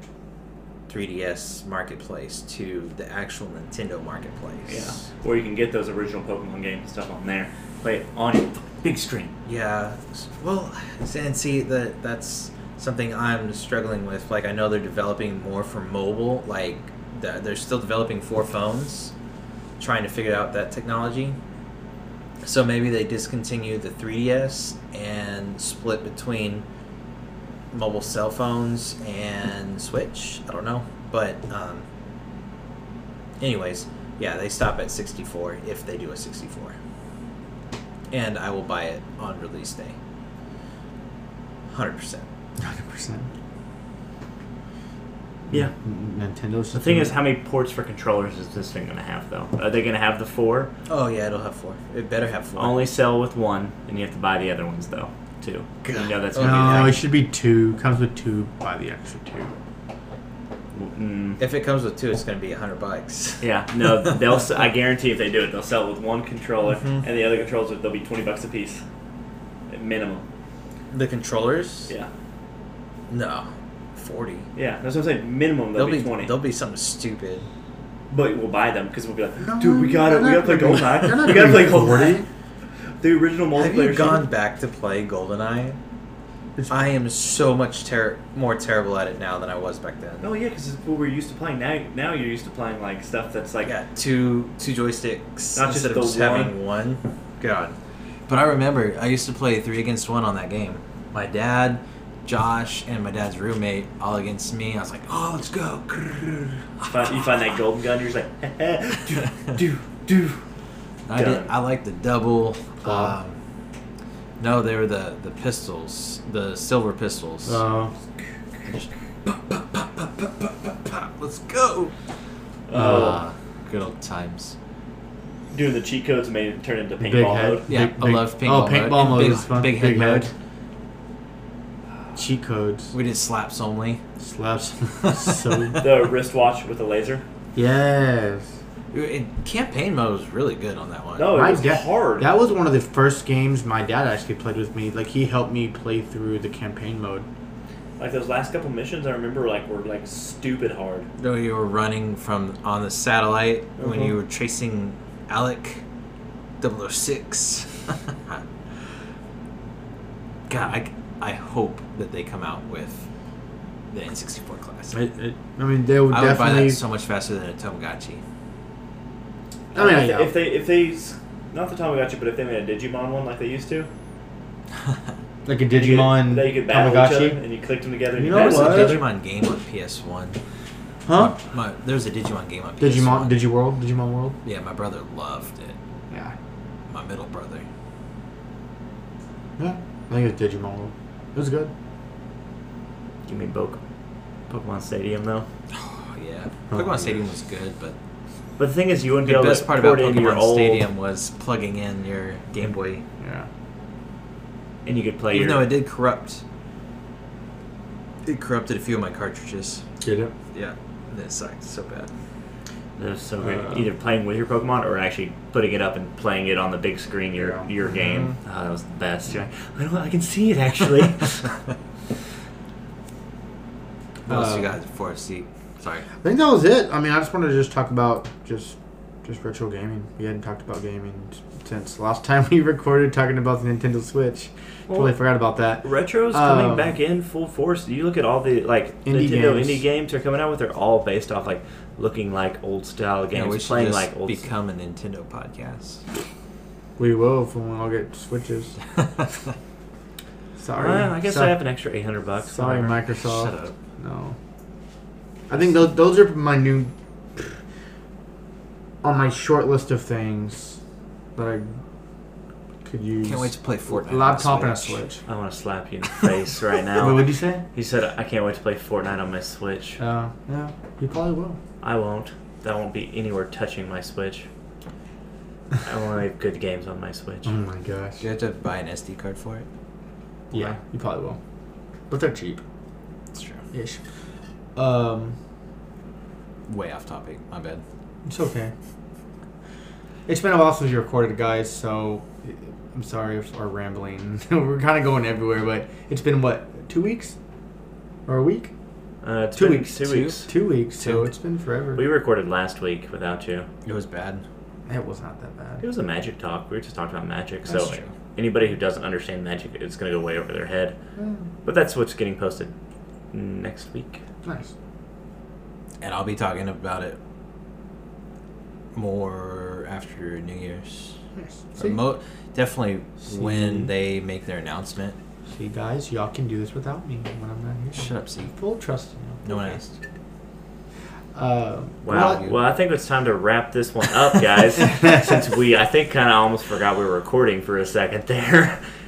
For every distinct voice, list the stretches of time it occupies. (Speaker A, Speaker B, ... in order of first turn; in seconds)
Speaker A: 0.9-5.0, 9.5-19.1, 19.8-21.4, 22.4-26.6, 27.7-31.9, 33.4-36.8, 38.1-40.0, 41.7-42.3, 50.9-52.9, 55.8-57.0, 61.4-64.2, 66.7-67.1, 70.9-71.9, 73.1-74.5, 75.8-77.5, 83.5-85.8, 86.7-90.3, 93.6-97.8, 98.3-107.3, 111.1-113.4, 114.4-117.6, 118.7-121.9, 122.7-124.6, 127.7-130.3, 132.9-134.0, 135.0-135.8, 138.9-141.4, 151.2-155.8, 156.6-158.4, 160.5-163.1, 163.9-165.0, 166.1-168.2, 174.8-175.1, 178.3-180.4, 181.1-183.5, 184.4-185.8, 186.9-187.7, 195.7-198.0, 199.2-203.0, 205.3-206.4, 208.2-209.8, 210.5-212.1, 224.3-226.1, 243.3-246.0, 249.0-249.3, 253.2-253.7, 263.2-265.0, 278.2-279.7, 283.3-283.6, 286.7-287.8, 300.0-301.3, 303.9-304.4, 307.7-308.1, 316.0-317.2, 318.9-321.2, 321.8-325.2, 327.9-328.5, 329.4-330.0, 332.1-332.6
Speaker B: 4.7-9.3, 46.7-50.7, 52.6-57.0, 60.7-61.4, 63.4-68.8, 69.7-70.2, 74.6-76.3, 78.1-82.2, 83.0-84.2, 90.2-93.7, 95.5-96.5, 106.9-110.4, 111.1-111.5, 122.7-123.2, 125.5-127.6, 135.8-137.2, 141.2-142.3, 148.0-151.1, 153.8-154.1, 169.7-173.9, 175.8-179.1, 193.3-193.8, 194.5-195.5, 198.6-200.9, 204.8-205.7, 213.0-221.5, 234.9-235.2, 235.8-244.5, 250.8-253.0, 265.3-270.0, 271.8-274.5, 275.8-277.5, 299.2-300.5, 302.0-303.7, 305.8-311.0, 311.6-312.7, 313.3-314.2, 332.0-338.8
Speaker C: 42.6-43.3, 45.5-47.2, 56.4-59.5, 79.4-82.3, 86.6-86.9, 112.8-113.1, 117.5-117.9, 122.7-123.2, 127.0-130.3, 132.2-132.9, 134.2-135.8, 137.6-138.5, 141.3-147.3, 164.9-166.8, 169.7-170.3, 175.4-177.4, 178.2-179.0, 181.1-181.3, 182.8-184.4, 186.1-186.3, 189.6-191.7, 196.7-197.1, 203.2-203.5, 210.0-210.3, 213.4-213.8, 217.4-218.3, 224.3-224.8, 226.2-237.0, 239.1-239.8, 247.0-248.8, 250.6-251.6, 252.5-254.4, 255.5-257.6, 259.0-260.8, 261.4-261.8, 262.8-265.2, 267.0-267.6, 270.0-271.6, 277.4-278.2, 280.5-281.4, 282.1-282.6, 283.7-284.0, 284.8-285.4, 288.2-288.7, 290.3-297.4, 298.3-298.7, 299.6-302.1, 304.9-305.8, 311.2-311.4, 314.4-314.7, 321.4-322.0, 323.3-323.9, 325.5-329.8, 331.4-332.4